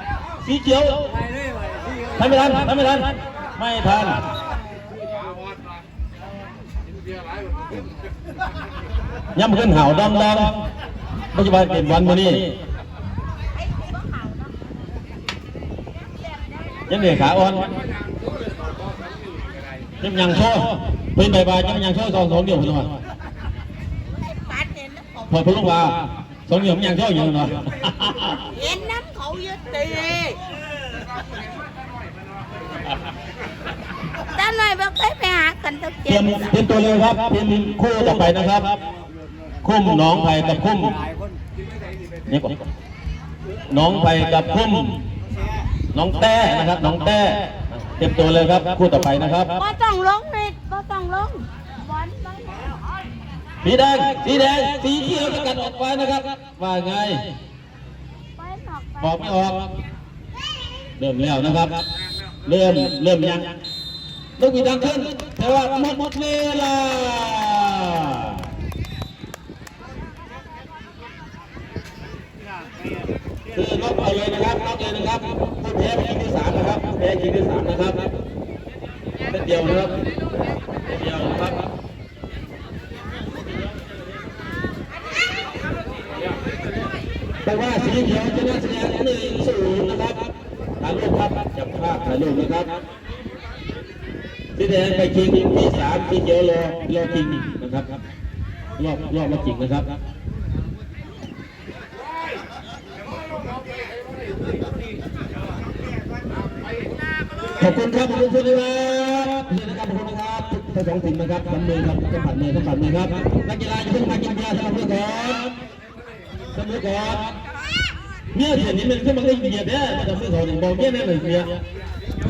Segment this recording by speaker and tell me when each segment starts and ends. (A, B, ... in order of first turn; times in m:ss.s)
0:00.4-0:01.0 A
0:02.2-0:04.2 A
0:09.3-0:10.6 A
0:11.3-0:12.5 A
0:13.9-0:14.4 B
0:16.2-0:16.8 B
0:16.9-0:17.7 A
0:20.0-0:22.9 A
0:24.2-0:25.2 B
0:25.3-0:28.5 A
0:28.5-0:30.4 B
0:34.2-0:36.3 B
0:36.0-0:38.8 A
0:39.6-0:41.0 A
0:42.3-0:42.6 A
0:43.7-0:45.0 A
0:45.9-0:49.6 A
0:49.6-0:52.8 B
0:53.6-0:57.3 A
0:58.4-0:59.0 B
0:59.0-0:59.7 A
1:01.0-1:01.8 A
1:02.4-1:03.5 A
1:04.4-1:08.4 A
1:13.5-1:18.1 A
1:19.3-1:20.0 A
1:20.8-1:21.7 A
1:27.4-1:32.8 A
1:34.6-1:38.0 A
1:38.8-1:39.9 A
1:47.6-1:55.5 A
1:56.5-1:57.4 A
1:58.3-2:01.6 A